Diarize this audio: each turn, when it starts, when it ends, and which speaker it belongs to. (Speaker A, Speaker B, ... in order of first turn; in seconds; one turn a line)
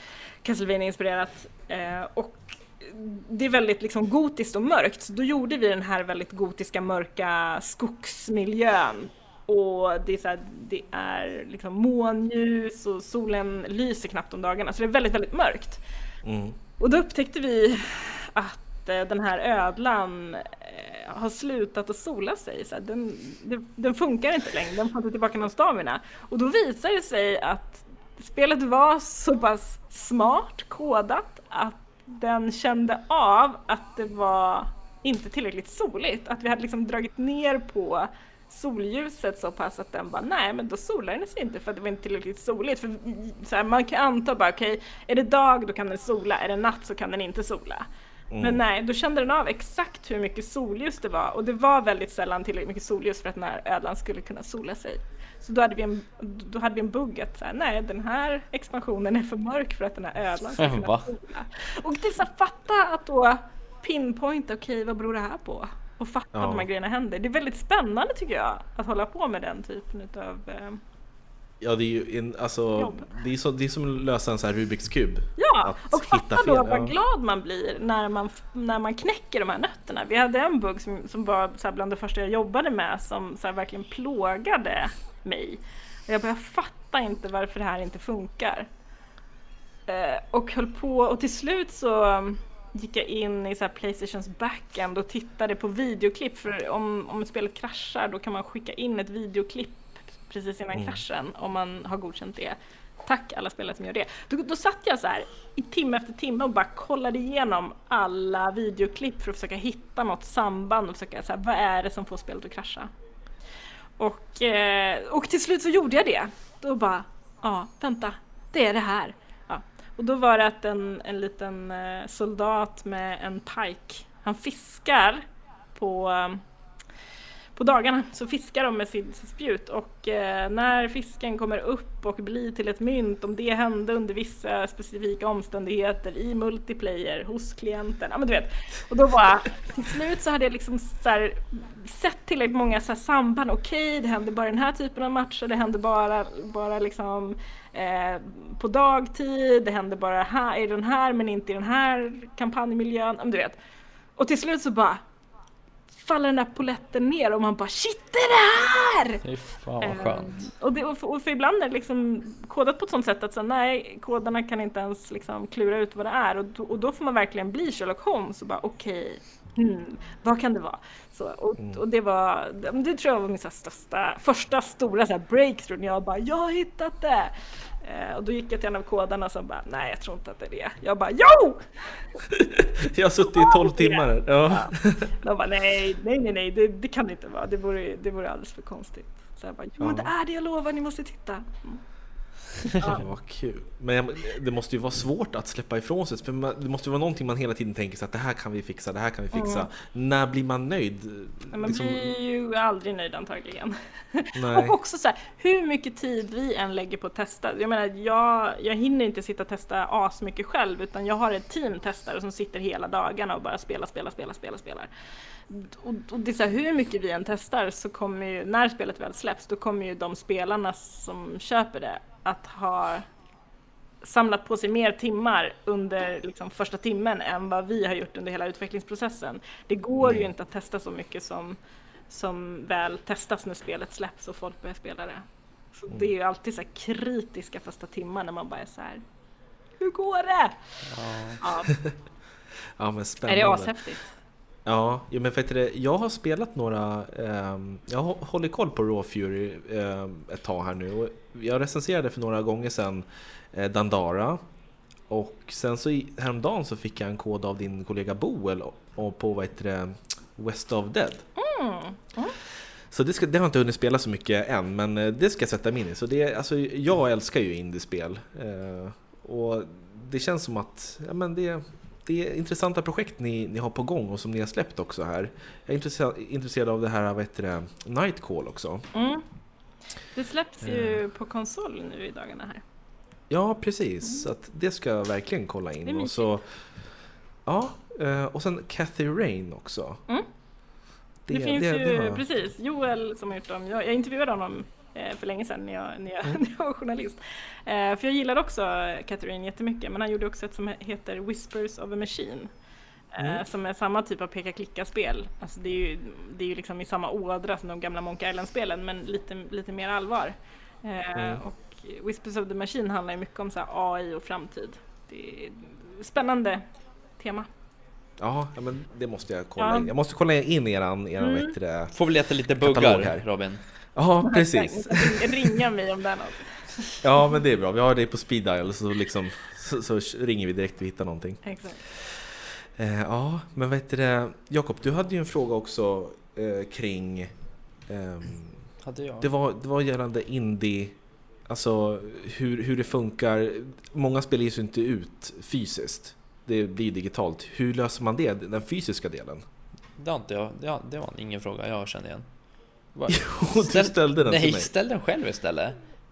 Speaker A: 0.4-15.8
Speaker B: 16.2-16.6
Speaker A: 16.8-47.9
Speaker B: 48.3-48.6
Speaker A: 48.4-70.8
Speaker C: 60.6-61.0
Speaker B: 66.3-66.7
Speaker B: 71.6-76.9
Speaker A: 72.8-73.1
Speaker A: 75.4-88.7
Speaker A: 89.9-112.9
Speaker B: 100.7-101.0
Speaker A: 114.0-126.4
Speaker A: 127.5-153.6
Speaker A: 154.2-155.0
Speaker A: 155.9-159.2
Speaker C: 159.2-160.5
Speaker A: 159.8-181.6
Speaker B: 182.3-185.1
Speaker A: 183.2-191.8
Speaker B: 189.8-190.1
Speaker A: 192.8-193.0
Speaker B: 192.8-202.1
Speaker A: 199.3-199.7
Speaker A: 201.5-214.9
Speaker B: 204.3-204.8
Speaker A: 215.5-223.0
Speaker A: 224.0-231.6
Speaker B: 230.0-230.3
Speaker A: 232.1-239.0
Speaker A: 239.8-240.7
Speaker C: 240.9-241.4
Speaker A: 241.4-241.7
Speaker B: 242.8-243.7
Speaker A: 243.3-244.1
Speaker B: 244.7-254.4
Speaker B: 255.1-261.2
Speaker A: 261.4-262.4
Speaker B: 262.9-278.9
Speaker A: 278.9-279.2
Speaker A: 280.1-282.6
Speaker B: 280.6-281.0
Speaker B: 283.3-286.4
Speaker A: 285.9-286.3
Speaker B: 287.4-290.0
Speaker B: 291.3-292.2
Speaker A: 291.3-302.5
Speaker A: 303.1-316.6
Speaker B: 311.1-311.4
Speaker A: 317.2-317.5
Speaker B: 318.2-321.9
Speaker A: 319.6-319.9
Speaker A: 321.2-321.5
Speaker C: 321.9-323.6
Speaker B: 322.6-323.2
Speaker B: 323.9-325.6
Speaker A: 324.2-327.0
Speaker B: 327.0-332.3
Speaker A: 331.4-331.8
Speaker B: 332.8-337.3
Speaker B: 337.9-338.6
Speaker C: 338.8-339.3
Speaker B: 339.2-341.0
Speaker B: 341.5-349.4
Speaker C: 350.0-352.2
Speaker C: 352.9-355.8
Speaker B: 353.1-354.7